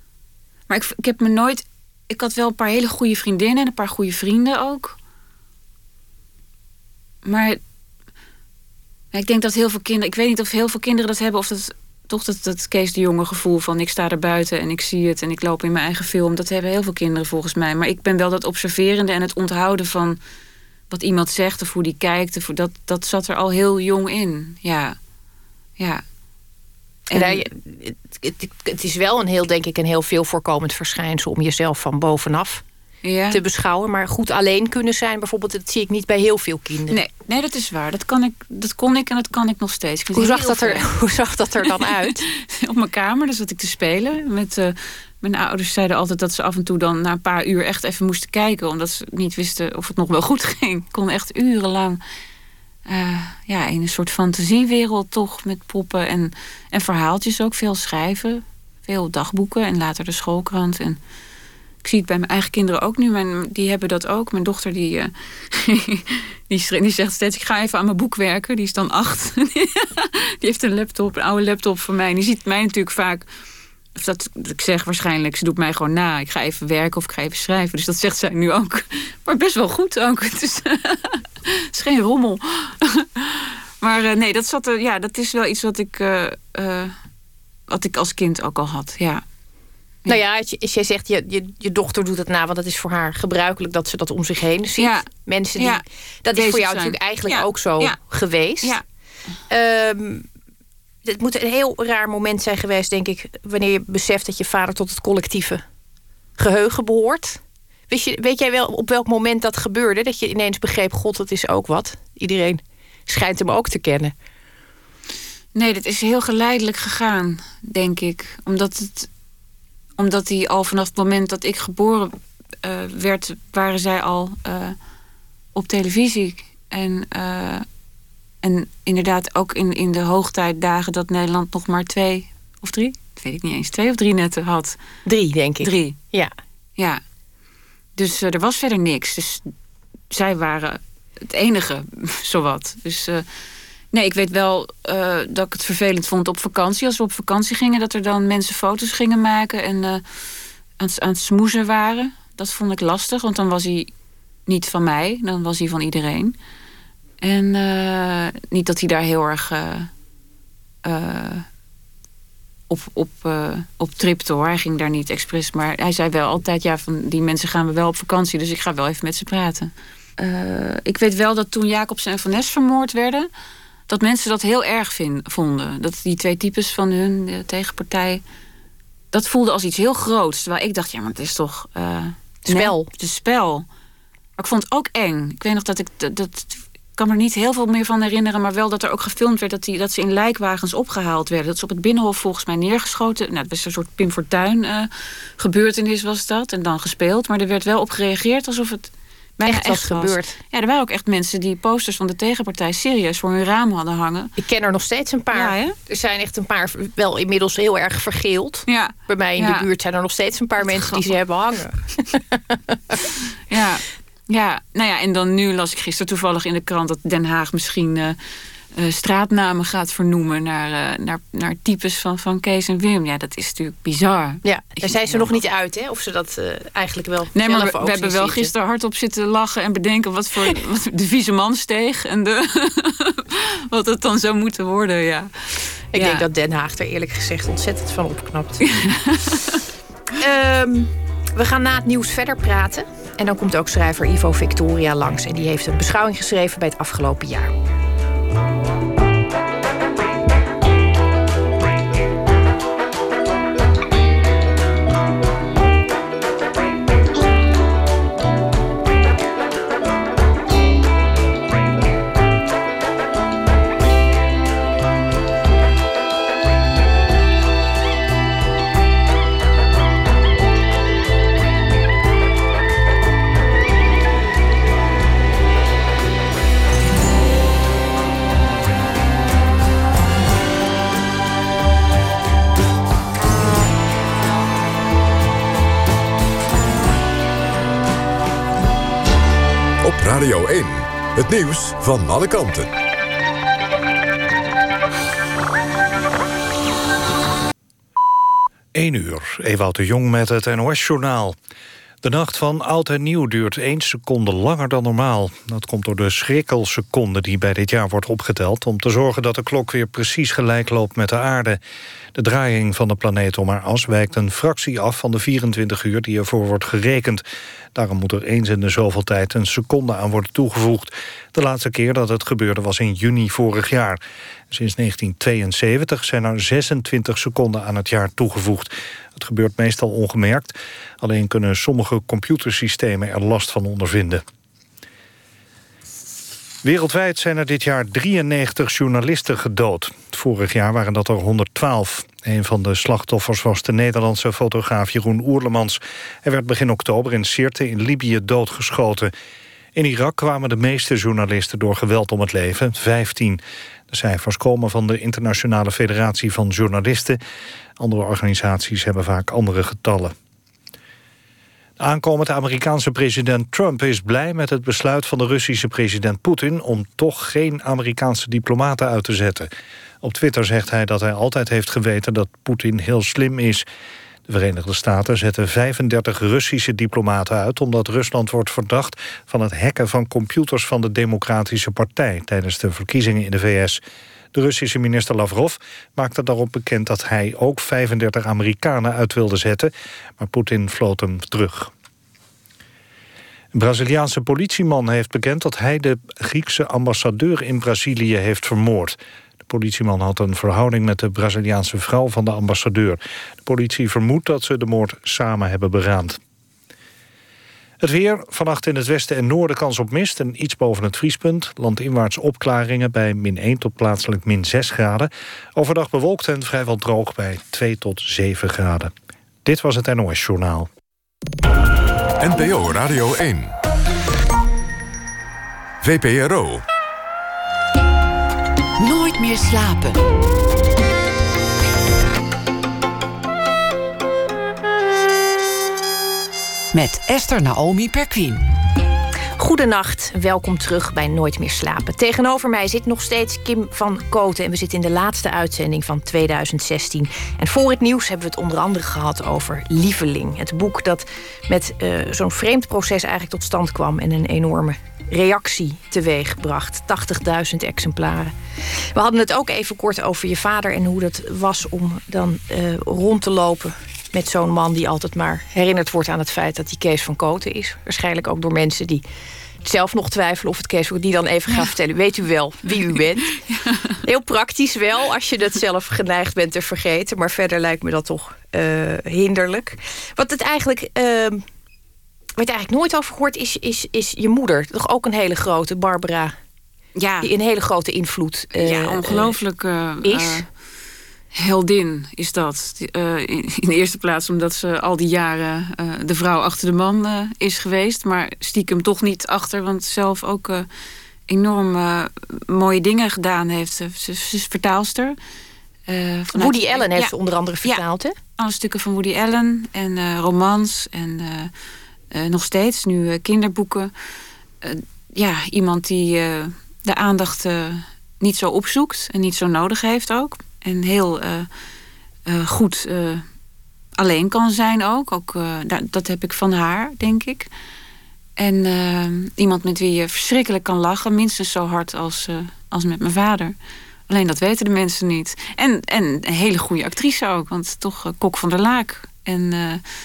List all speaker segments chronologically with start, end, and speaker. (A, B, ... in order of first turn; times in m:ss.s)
0:00.7-0:05.0 A
0:07.2-0:07.6 A
0:09.1-0:20.2 A
0:20.9-0:25.0 A
0:25.8-0:26.0 A
0:27.1-0:27.4 A
0:27.1-0:32.6 B
0:33.0-0:33.4 A
0:33.3-0:37.0 B
0:36.9-0:40.9 A
0:40.1-0:42.2 B
0:41.8-0:52.0 A
0:52.9-1:01.0 A
1:01.8-1:13.3 A
1:13.9-1:26.9 A
1:27.7-1:29.2 A
1:30.0-1:38.8 B
1:34.8-1:38.0 A
1:39.5-1:40.3 B
1:41.0-1:45.6 B
1:46.4-1:54.1 B
1:55.5-1:59.1 A
2:00.0-2:02.1 A
2:02.6-2:04.8 A
2:05.5-2:07.6 A
2:08.4-2:14.8 A
2:15.0-2:16.3 B
2:15.6-2:16.0 A
2:18.0-2:19.5 A
2:20.1-2:23.2 A
2:23.9-2:30.0 A
2:30.8-2:33.9 A
2:34.5-2:36.4 A
2:37.2-2:39.9 A
2:40.8-2:41.5 A
2:42.7-2:53.3 A
2:53.9-2:58.2 A
2:59.1-3:03.6 A
3:02.4-3:02.9 B
3:04.4-3:24.3 A
3:19.4-3:20.4 B
3:24.4-3:33.1 B
3:25.3-3:25.8 A
3:28.7-3:29.7 A
3:30.6-3:31.2 A
3:33.5-3:38.2 A
3:38.7-3:45.4 A
3:44.4-3:48.5 B
3:47.3-3:56.2 A
3:55.9-3:58.6 B
3:58.6-3:59.6 A
4:00.1-4:07.5 B
4:49.8-4:52.7 C
4:58.7-5:01.4 D
5:02.0-5:11.6 D
5:12.1-5:34.2 D
5:36.6-5:49.1 D
5:49.7-5:57.2 D
5:57.8-6:00.1 D
6:01.8-6:09.5 D
6:10.0-6:13.6 D
6:14.3-6:23.8 D
6:24.3-6:31.7 D
6:33.5-6:39.0 D
6:39.5-6:46.2 D
6:47.8-6:58.9 D
6:59.4-7:00.7 D
7:02.2-7:03.5 C
7:05.8-7:06.6 C
7:08.8-7:10.1 E
7:16.7-7:18.4 E
7:19.4-7:49.0 B
7:49.6-7:53.4 B
7:53.4-7:53.9 A
7:54.0-8:01.4 B
8:02.4-8:06.3 B
8:07.0-8:07.3 A
8:07.2-8:09.4 B
8:08.6-8:10.5 A
8:10.0-8:10.5 B
8:11.3-8:20.7 A
8:21.3-8:25.2 A
8:25.9-8:27.1 A
8:26.3-8:28.2 B
8:28.4-8:31.5 A
8:32.1-8:33.9 A
8:34.6-8:41.5 A
8:42.2-8:43.2 A
8:44.0-8:47.5 A
8:48.4-8:53.6 A
8:54.1-8:59.8 A